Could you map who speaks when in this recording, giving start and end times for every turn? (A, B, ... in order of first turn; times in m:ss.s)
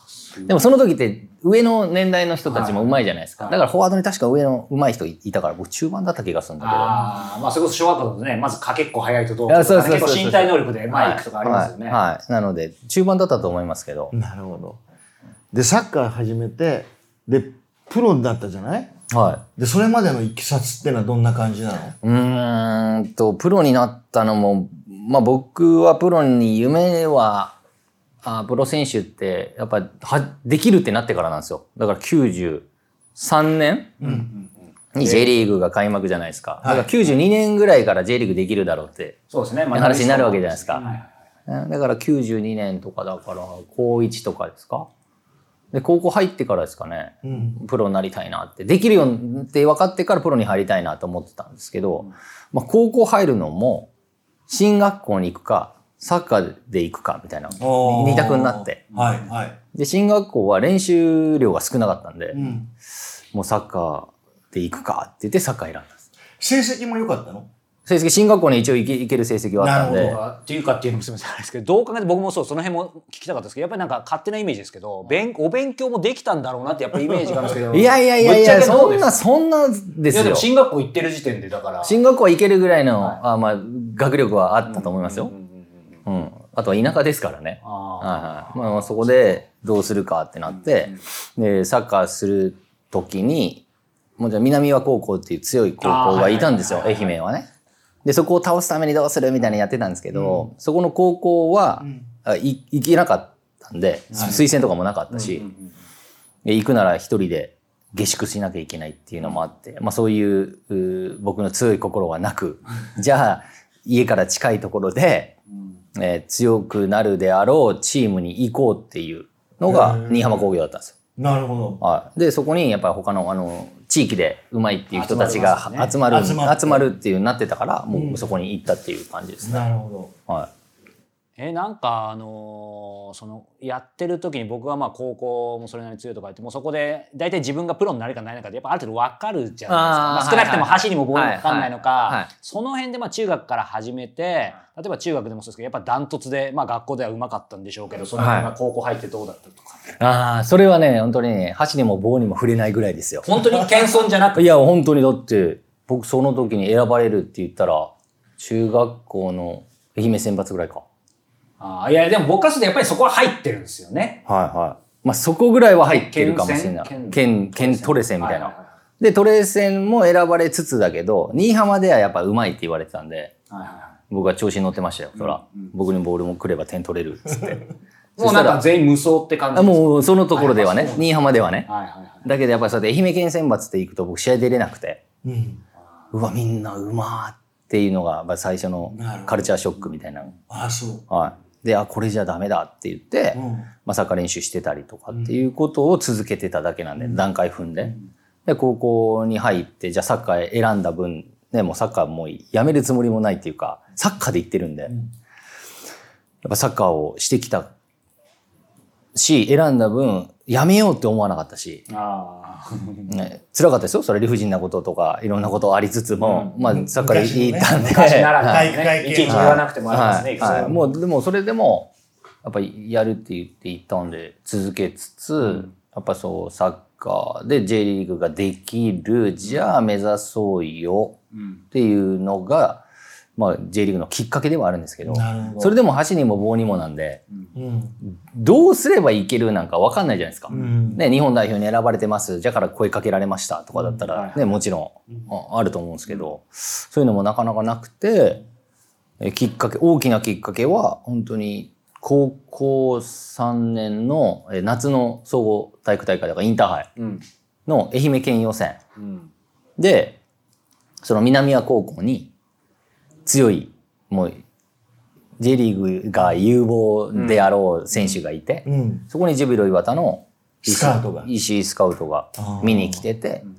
0:00.4-0:07.0 A
0:02.4-0:02.9 B
0:06.6-0:12.0 B
0:09.5-0:14.1 A
0:14.1-0:14.8 C
0:15.5-0:18.9 C
0:19.1-0:19.4 A
0:19.6-0:22.0 C
0:22.0-0:27.6 A
0:28.2-0:34.0 A
0:34.0-0:34.3 C
0:34.0-0:34.4 B
0:34.9-0:39.2 A
0:35.0-0:35.3 B
0:36.6-0:36.9 C
0:39.3-0:41.1 B
0:39.7-0:40.9 A
0:41.5-0:44.9 A
0:45.7-0:53.9 A
0:47.2-0:47.6 C
0:54.5-0:58.8 A
0:57.6-0:59.6 C
0:59.7-1:02.4 A
1:02.3-1:02.7 C
1:03.3-1:06.0 A
1:06.4-1:07.5 C
1:07.8-1:10.2 A
1:09.6-1:10.2 C
1:09.8-1:19.2 B
1:17.7-1:20.5 A
1:20.1-1:22.0 B
1:21.8-1:25.3 A
1:24.7-1:25.6 B
1:26.0-1:33.6 A
1:27.6-1:29.4 B
1:34.2-1:37.5 A
1:35.8-1:37.1 B
1:38.0-1:45.5 A
1:40.1-1:40.5 C
1:41.8-1:42.0 C
1:44.1-1:44.4 B
1:44.1-1:44.4 C
1:45.1-1:45.6 B
1:46.4-1:55.4 A
1:56.0-2:01.0 A
1:59.6-2:00.4 C
2:01.2-2:01.8 C
2:01.8-2:09.6 A
2:04.9-2:06.0 B
2:06.0-2:06.9 C
2:07.9-2:08.3 C
2:09.4-2:10.1 C
2:11.4-2:29.9 B
2:19.7-2:22.3 A
2:28.2-2:28.5 A
2:30.0-2:33.3 A
2:33.2-2:34.4 B
2:34.3-2:40.8 A
2:41.6-2:44.2 B
2:44.3-2:53.3 A
2:45.8-2:48.6 B
2:53.5-2:54.0 B
2:54.1-2:58.6 A
2:55.2-2:55.7 B
2:58.2-3:01.1 B
2:59.5-3:01.7 A
3:01.6-3:02.3 B
3:02.2-3:05.0 A
3:05.2-3:05.6 C
3:06.1-3:10.3 A
3:08.9-3:09.4 C
3:10.5-3:11.0 C
3:11.1-3:17.9 A
3:13.3-3:13.7 C
3:18.4-3:24.9 A
3:26.4-3:27.7 A
3:29.1-3:31.8 A
3:31.9-3:33.1 B
3:33.1-3:38.7 A
3:36.2-3:36.5 B
3:36.6-3:39.7 C
3:37.8-3:40.8 B
3:39.3-3:41.9 A
3:40.4-3:40.9 C
3:42.4-3:51.2 A
3:45.4-3:45.7 B
3:51.7-3:52.8 A
3:53.4-3:57.2 A
3:55.0-3:55.8 C
3:57.5-3:58.0 C
3:58.0-4:08.4 A
4:00.5-4:01.0 C
4:04.1-4:04.5 B
4:09.2-4:16.9 A
4:17.0-4:17.2 B
4:17.7-4:18.8 A
4:19.0-4:19.3 B
4:19.8-4:20.2 A
4:21.0-4:22.3 A
4:23.2-4:24.4 A
4:25.4-4:33.4 A
4:27.1-4:27.5 B
4:28.6-4:29.0 C
4:30.6-4:31.3 C
4:32.4-4:33.0 C